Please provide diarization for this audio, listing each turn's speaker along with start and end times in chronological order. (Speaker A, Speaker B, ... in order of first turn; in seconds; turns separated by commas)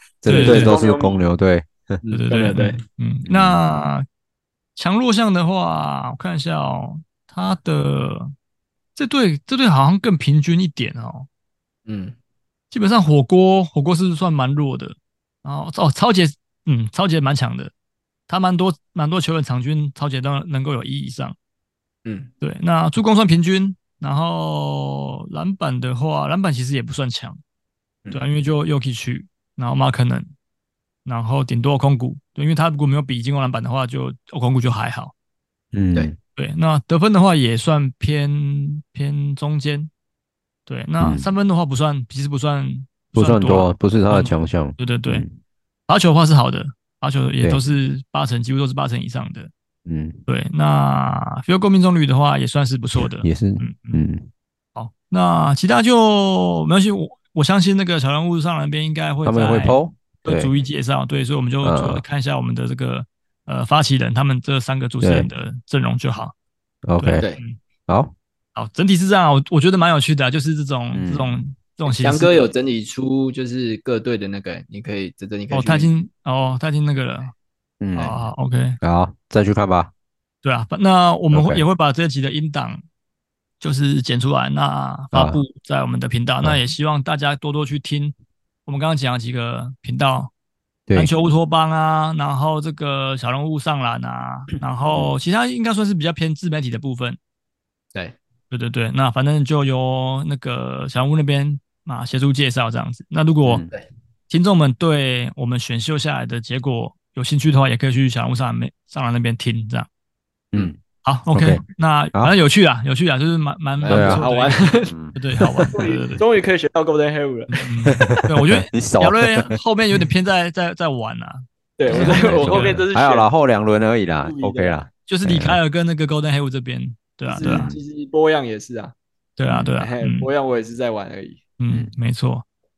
Speaker A: 0.2-2.0, Speaker B: 0.2-1.2, Speaker C: 0.3-0.8, Speaker B: 2.0-2.8, Speaker C: 2.1-4.1, Speaker A: 3.3-3.6, Speaker C: 4.8-8.3, Speaker C: 9.0-11.3, Speaker B: 11.9-12.2, Speaker C: 12.7-17.7, Speaker C: 18.3-21.4, Speaker B: 22.1-22.3, Speaker C: 22.4-27.4, Speaker C: 28.1-30.3, Speaker C: 31.1-35.1, Speaker A: 35.7-36.2, Speaker C: 36.4-39.9, Speaker C: 40.7-45.3, Speaker A: 41.0-41.3, Speaker A: 43.1-45.4, Speaker C: 45.9-49.5, Speaker A: 49.9-50.2, Speaker C: 50.3-54.0, Speaker A: 53.0-54.3, Speaker C: 54.8-66.3, Speaker A: 59.2-60.5, Speaker A: 61.6-62.0, Speaker A: 65.0-65.3, Speaker A: 66.8-67.2, Speaker C: 67.0-67.6, Speaker A: 67.9-68.1, Speaker C: 68.5-72.4, Speaker A: 70.9-71.4, Speaker B: 71.8-75.9, Speaker C: 75.5-77.3, Speaker A: 77.8-78.2, Speaker C: 78.0-78.8, Speaker A: 78.8-79.9, Speaker C: 80.4-82.8, Speaker A: 81.3-81.6, Speaker C: 83.6-88.2, Speaker A: 85.1-85.4, Speaker C: 88.7-90.3, Speaker C: 90.9-97.2, Speaker C: 98.5-103.6, Speaker A: 103.4-103.7, Speaker C: 104.3-109.9, Speaker A: 110.5-110.8, Speaker C: 111.0-116.2, Speaker A: 111.3-111.6, Speaker B: 113.8-114.9, Speaker A: 113.9-114.3, Speaker A: 114.8-115.7, Speaker B: 115.7-117.5, Speaker C: 117.5-122.8, Speaker A: 117.9-120.0, Speaker B: 121.8-123.3, Speaker A: 121.9-125.6, Speaker B: 124.2-124.8, Speaker C: 125.1-127.7, Speaker B: 127.3-128.9, Speaker A: 127.4-127.8, Speaker C: 129.4-130.3, Speaker B: 129.8-131.4, Speaker C: 131.6-132.4